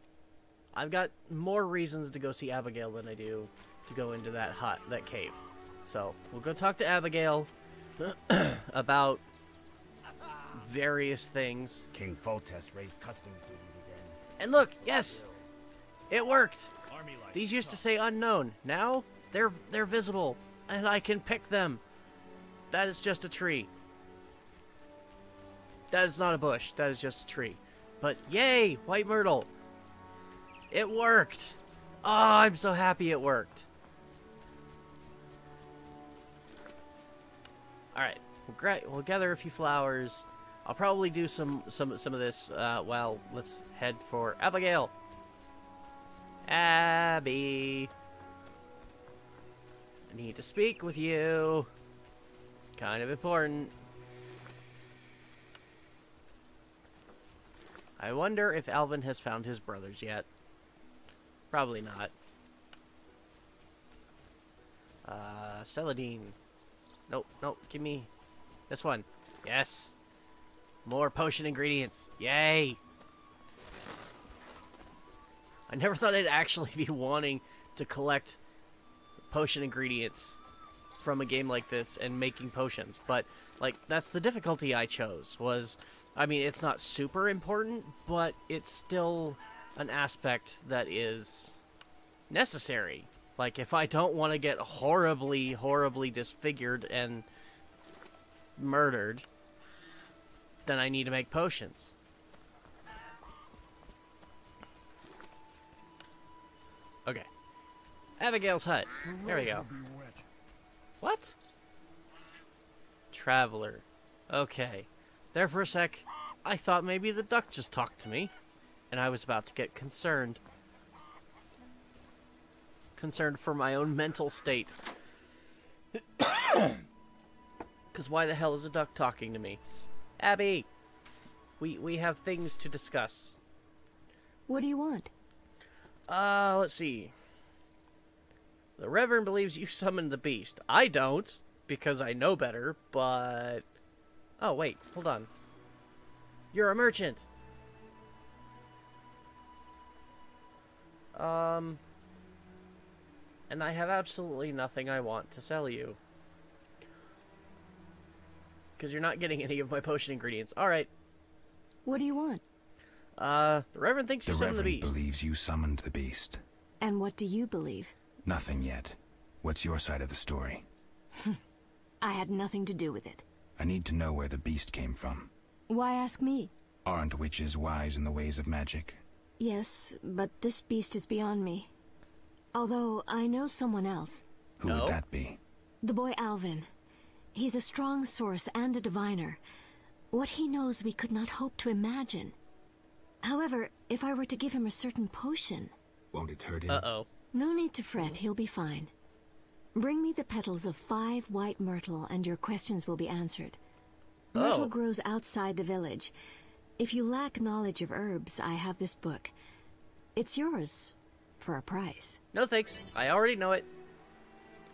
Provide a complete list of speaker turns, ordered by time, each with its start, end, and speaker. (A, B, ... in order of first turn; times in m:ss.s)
0:00.7-0:09.2 A
0:10.5-0:11.9 A
0:11.9-0:15.4 B
0:14.4-0:15.3 A
0:16.1-0:16.7 A
0:16.9-0:17.8 B
0:17.3-0:21.8 A
0:22.7-0:23.7 A
0:25.9-0:29.5 A
0:30.7-0:33.7 A
0:38.0-0:44.9 A
0:46.5-0:47.9 A
0:50.1-0:51.7 A
0:52.8-0:53.7 A
0:58.0-1:00.3 A
1:01.5-1:02.1 A
1:05.0-1:06.4 A
1:07.1-1:08.1 A
1:08.7-1:10.0 A
1:10.8-1:12.8 A
1:15.7-1:18.4 A
1:19.3-1:20.4 A
1:21.0-1:31.6 A
1:32.3-1:37.3 A
1:38.6-1:39.3 A
1:40.6-1:41.9 A
1:48.2-1:49.7 A
1:51.0-1:51.4 A
1:53.1-1:58.3 A
1:58.9-2:00.4 A
2:03.0-2:04.8 A
2:06.2-2:06.8 A
2:07.9-2:09.6 A
2:10.2-2:10.7 A
2:11.6-2:13.4 A
2:14.5-2:15.1 C
2:16.1-2:17.1 A
2:18.8-2:23.6 A
2:24.4-2:25.3 A
2:26.5-2:27.3 A
2:31.1-2:31.8 A
2:33.5-2:36.0 A
2:38.8-2:40.9 A
2:41.8-2:42.4 C
2:43.2-2:45.0 A
2:44.3-2:46.4 D
2:46.8-2:47.9 C
2:48.2-2:50.7 D
2:52.0-2:53.2 C
2:53.6-2:55.3 D
2:55.7-2:56.5 C
2:56.8-2:59.0 D
2:59.4-3:01.7 C
3:02.5-3:04.2 C
3:04.6-3:05.4 D
3:04.7-3:05.0 A
3:05.8-3:06.7 C
3:07.4-3:09.4 C
3:10.1-3:12.4 C
3:13.2-3:15.7 C
3:16.1-3:16.9 D
3:16.7-3:17.1 A
3:17.3-3:18.9 C
3:19.8-3:23.6 C
3:24.3-3:26.1 C
3:24.4-3:24.7 A
3:26.8-3:29.3 C
3:30.2-3:32.2 C
3:32.3-3:33.7 A